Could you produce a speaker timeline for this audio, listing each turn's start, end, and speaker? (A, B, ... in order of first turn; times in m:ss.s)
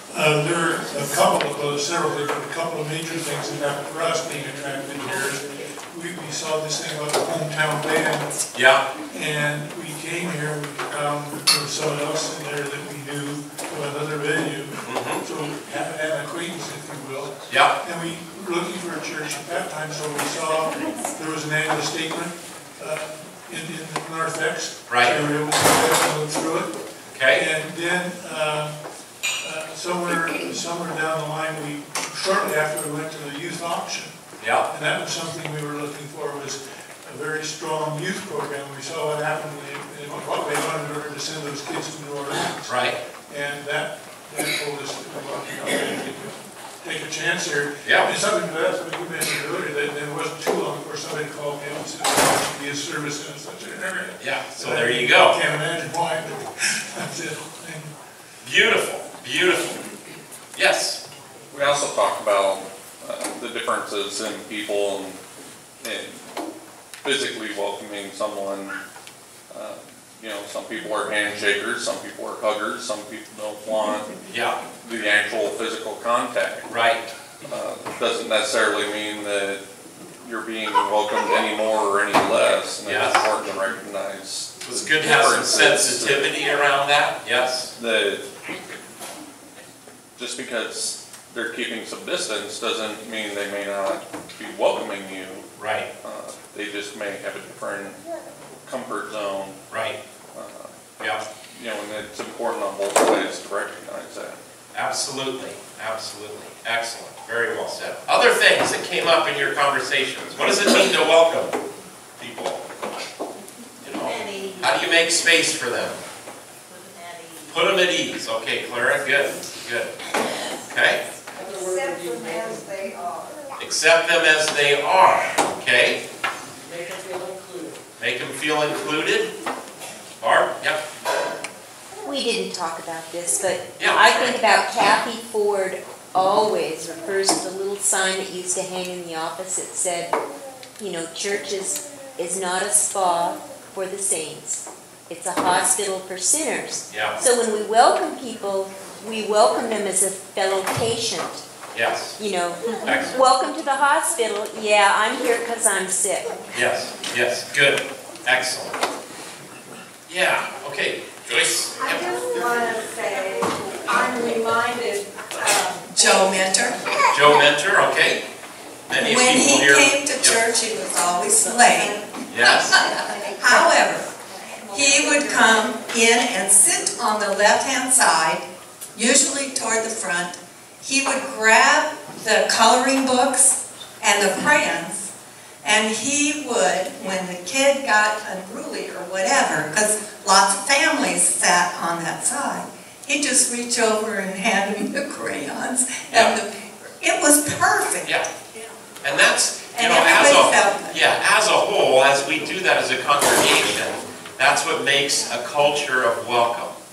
0:00.1-0:08.4 A
0:08.5-0:08.8 B
0:09.1-0:26.8 A
0:14.8-0:15.2 B
0:17.5-0:17.8 B
0:24.9-0:25.2 B
0:27.1-0:27.4 B
0:27.3-0:28.8 A
0:29.4-0:34.2 A
0:34.4-0:34.7 B
0:34.7-0:42.7 A
0:42.6-0:43.0 B
0:43.3-0:58.0 A
0:47.8-0:48.1 B
0:54.2-0:55.4 B
0:58.4-0:59.8 B
1:00.6-1:01.0 B
1:01.5-1:05.2 C
1:05.8-1:06.2 C
1:07.0-1:08.8 C
1:09.5-1:14.1 C
1:14.3-1:14.6 B
1:14.8-1:16.7 C
1:16.7-1:17.0 B
1:17.4-1:19.6 C
1:20.2-1:26.4 C
1:22.4-1:23.2 B
1:24.6-1:27.7 B
1:27.8-1:28.3 C
1:30.2-1:35.5 C
1:35.6-1:35.9 B
1:36.0-1:38.0 C
1:38.6-1:39.6 C
1:39.7-1:40.0 B
1:40.3-1:40.8 C
1:41.5-1:44.4 C
1:44.8-1:51.6 B
1:52.2-1:52.6 B
1:53.8-1:56.0 B
1:57.5-1:59.9 B
2:00.6-2:01.0 B
2:03.6-2:06.0 B
2:08.0-2:09.3 B
2:10.2-2:10.8 B
2:12.0-2:20.1 D
2:13.8-2:14.4 B
2:20.8-2:31.4 D
2:26.9-2:27.2 B
2:31.7-2:32.2 B
2:32.2-2:36.4 D
2:32.8-2:33.1 B
2:36.5-2:38.8 B
2:40.1-2:42.1 B
2:42.3-2:43.2 E
2:43.9-2:45.0 E
2:45.9-2:46.8 F
2:47.1-2:48.2 B
2:48.9-2:50.4 B
2:49.0-2:54.1 F
2:52.3-2:52.8 B
2:54.7-3:05.1 F
3:05.6-3:18.1 F
3:16.1-3:16.4 B
3:19.0-3:26.8 B
3:19.8-3:21.0 F